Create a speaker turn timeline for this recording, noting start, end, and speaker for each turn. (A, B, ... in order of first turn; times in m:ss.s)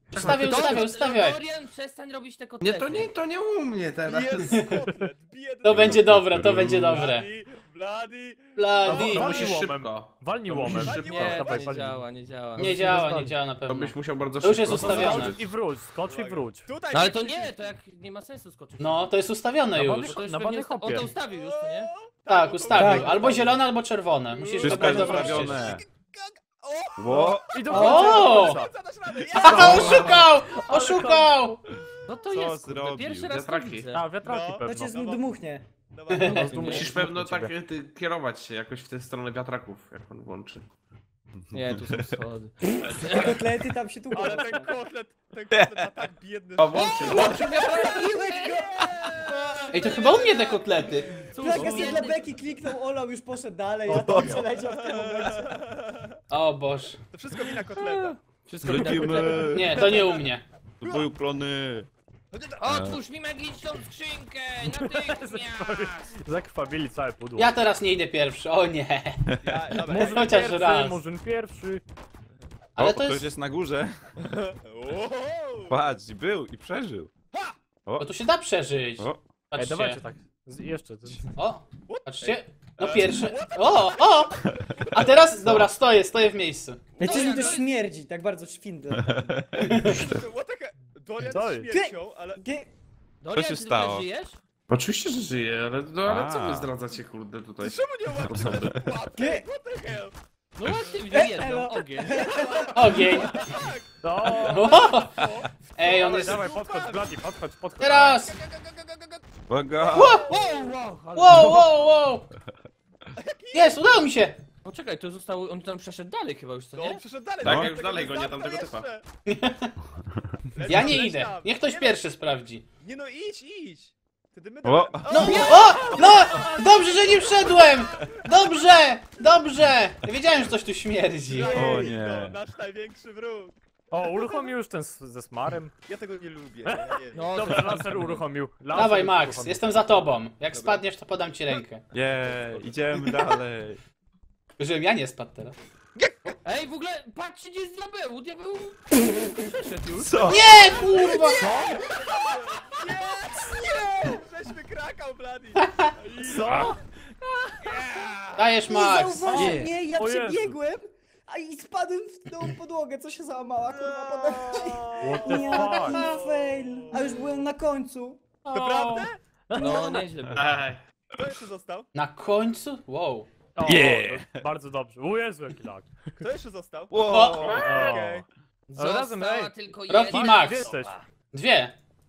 0:00.1-0:01.4 A
0:00.1-0:00.6 B
0:00.4-0:03.1 C
0:02.6-0:04.5 B
0:04.0-0:06.2 D
0:04.4-0:04.8 A
0:05.6-0:07.3 A
0:05.6-0:07.1 E
0:06.9-0:09.0 D
0:08.6-0:09.4 A
0:08.8-0:11.0 B
0:08.8-0:12.0 F
0:10.8-0:11.7 D
0:10.9-0:12.7 C
0:12.6-0:13.3 F
0:12.6-0:15.4 A
0:13.6-0:15.4 B
0:14.7-0:16.7 F
0:16.0-0:17.7 D
0:16.9-0:19.1 C
0:18.8-0:20.2 A
0:19.7-0:21.1 F
0:19.8-0:21.9 C
0:21.2-0:23.6 D
0:22.3-0:25.7 A
0:22.7-0:23.5 G
0:24.3-0:30.2 D
0:24.6-0:25.8 E
0:27.0-0:27.6 E
0:27.5-0:31.6 F
0:27.7-0:28.5 G
0:27.7-0:28.6 A
0:29.3-0:31.6 A
0:29.6-0:30.2 B
0:32.0-0:34.0 C
0:32.3-0:33.3 E
0:33.3-0:33.9 B
0:33.9-0:35.0 F
0:34.2-0:35.2 D
0:34.6-0:35.6 G
0:35.9-0:37.0 D
0:36.1-0:36.5 A
0:36.2-0:37.5 F
0:36.2-0:36.9 C
0:36.6-0:40.7 B
0:41.5-0:43.4 C
0:41.6-0:42.2 E
0:43.0-0:44.7 G
0:44.1-0:52.2 D
0:45.5-0:45.9 E
0:46.6-0:47.6 B
0:46.7-0:48.8 C
0:47.2-0:50.0 G
0:49.7-0:51.2 A
0:51.3-0:52.3 C
0:51.3-0:55.6 G
0:53.9-0:54.4 F
0:53.9-0:54.4 E
0:54.6-0:56.2 D
0:56.3-0:57.0 A
0:57.1-0:58.2 D
0:58.4-0:59.6 C
0:58.6-0:59.9 E
0:59.5-1:00.4 A
0:59.8-1:00.1 D
1:00.8-1:01.9 E
1:02.3-1:02.9 D
1:02.6-1:06.1 C
1:02.7-1:03.0 E
1:04.7-1:07.5 F
1:07.4-1:09.3 A
1:09.4-1:10.6 D
1:09.8-1:11.8 F
1:09.8-1:11.0 A
1:12.8-1:13.2 A
1:12.8-1:14.0 E
1:14.2-1:15.8 D
1:15.7-1:17.1 E
1:18.0-1:20.0 A
1:19.0-1:19.2 E
1:19.5-1:21.3 F
1:21.4-1:24.4 A
1:21.8-1:25.6 D
1:24.9-1:26.8 A
1:26.9-1:27.6 D
1:27.0-1:29.2 G
1:27.0-1:27.7 C
1:29.0-1:30.2 E
1:29.3-1:32.4 D
1:29.6-1:30.0 A
1:31.2-1:31.7 F
1:31.7-1:32.7 G
1:33.2-1:34.4 C
1:33.3-1:34.1 E
1:34.7-1:38.8 B
1:36.0-1:36.7 E
1:37.6-1:40.9 D
1:38.4-1:38.7 E
1:39.1-1:39.4 G
1:40.6-1:42.3 C
1:41.1-1:43.1 G
1:42.0-1:47.2 D
1:42.7-1:43.4 A
1:44.0-1:45.0 F
1:44.4-1:45.2 A
1:45.8-1:46.5 A
1:45.9-1:48.2 F
1:47.8-1:48.4 A
1:48.0-1:50.7 D
1:49.5-1:50.2 E
1:49.9-1:50.3 A
1:50.3-1:51.8 C
1:51.1-1:52.3 A
1:53.2-1:54.1 D
1:53.5-1:54.4 A
1:54.6-1:57.0 C
1:56.7-1:59.0 D
1:57.4-1:57.7 E
1:57.4-1:58.9 B
1:59.3-1:59.7 A
2:00.5-2:02.2 D
2:00.6-2:02.6 A
2:02.8-2:06.6 D
2:04.6-2:05.2 E
2:05.1-2:11.8 A
2:05.3-2:06.0 C
2:05.6-2:07.5 F
2:07.2-2:08.5 D
2:11.3-2:14.5 D
2:11.5-2:12.4 E
2:11.6-2:11.9 G
2:13.9-2:15.7 F
2:15.9-2:17.7 D
2:16.7-2:19.8 F
2:17.1-2:18.1 C
2:18.7-2:21.8 A
2:20.5-2:20.8 D
2:21.9-2:23.8 E
2:22.2-2:22.6 C
2:24.6-2:25.6 A
2:26.0-2:26.3 D
2:26.4-2:30.3 C
2:30.0-2:30.6 E
2:30.3-2:31.4 A
2:30.4-2:36.8 D
2:31.3-2:31.8 F
2:36.2-2:36.8 F
2:37.6-2:38.7 D
2:38.4-2:39.5 A
2:38.7-2:48.2 G
2:39.2-2:40.5 F
2:43.7-2:47.4 D
2:45.0-2:46.1 F
2:48.4-2:49.1 A
2:48.5-2:49.2 D
2:49.5-2:50.0 F
2:49.5-2:50.4 C
2:50.3-2:50.8 B
2:51.1-2:51.9 D
2:51.9-2:53.3 A
2:53.5-2:55.9 F
2:53.6-2:54.4 E
2:56.2-2:58.2 D
2:56.9-2:57.9 E
2:57.1-2:57.5 A
2:57.5-2:58.2 F
2:58.7-3:01.1 C
2:58.8-3:01.0 F
2:59.9-3:00.7 A
3:01.3-3:01.7 A